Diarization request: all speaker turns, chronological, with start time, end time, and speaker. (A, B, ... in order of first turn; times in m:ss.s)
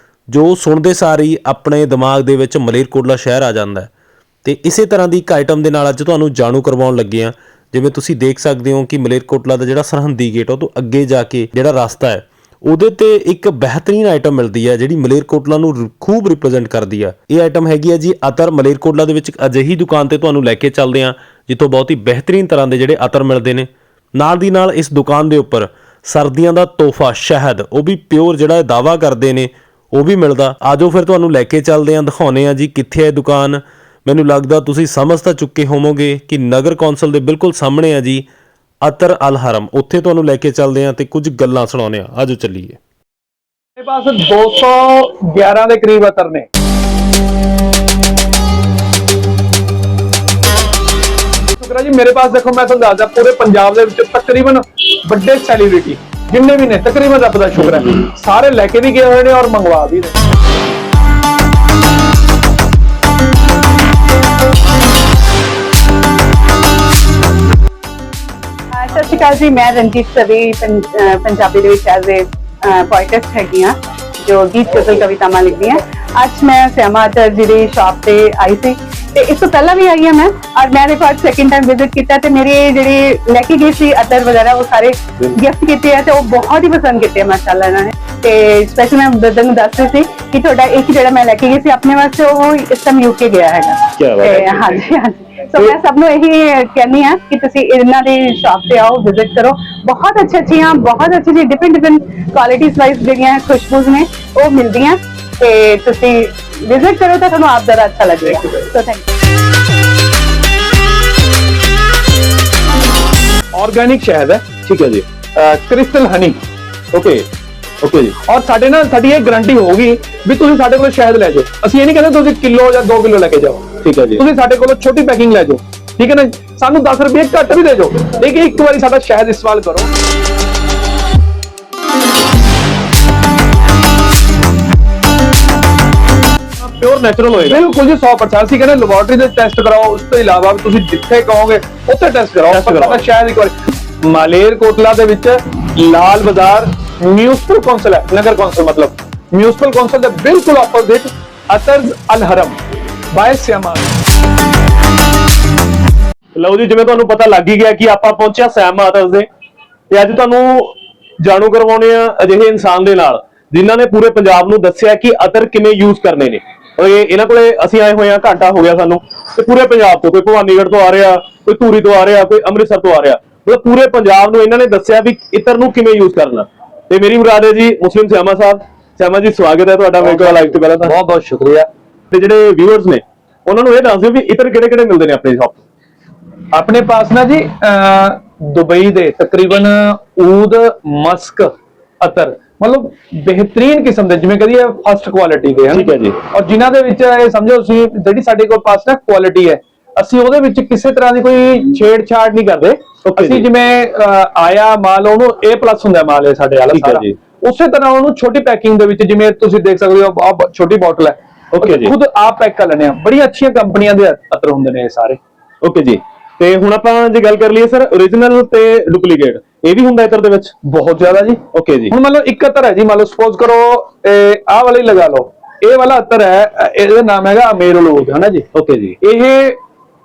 0:00.3-0:03.9 A
0:04.4-0:38.3 A
0:38.8-0:42.8 A
0:43.8-0:46.5 B
0:51.6-1:00.2 B
1:08.7-1:49.0 C
1:34.0-1:34.8 D
1:53.5-1:54.4 B
1:54.6-1:55.0 D
1:55.3-1:56.4 B
1:56.9-1:57.2 D
1:57.8-1:58.1 D
1:58.2-2:09.9 B
2:03.8-2:04.2 D
2:16.6-2:17.6 D
2:17.5-2:32.6 B
2:22.5-2:23.0 D
2:33.1-2:34.0 B
2:36.4-2:39.3 D
2:39.9-3:00.9 D
3:00.0-3:01.7 B
3:02.1-3:05.6 D
3:06.5-3:35.2 B
3:15.7-3:16.2 D
3:23.0-3:23.5 D
3:26.7-3:27.2 D
3:31.5-3:31.9 D
3:35.6-3:40.5 D
3:40.6-3:48.4 B
3:41.5-3:41.9 D
3:48.5-3:49.0 D
3:49.0-3:49.6 B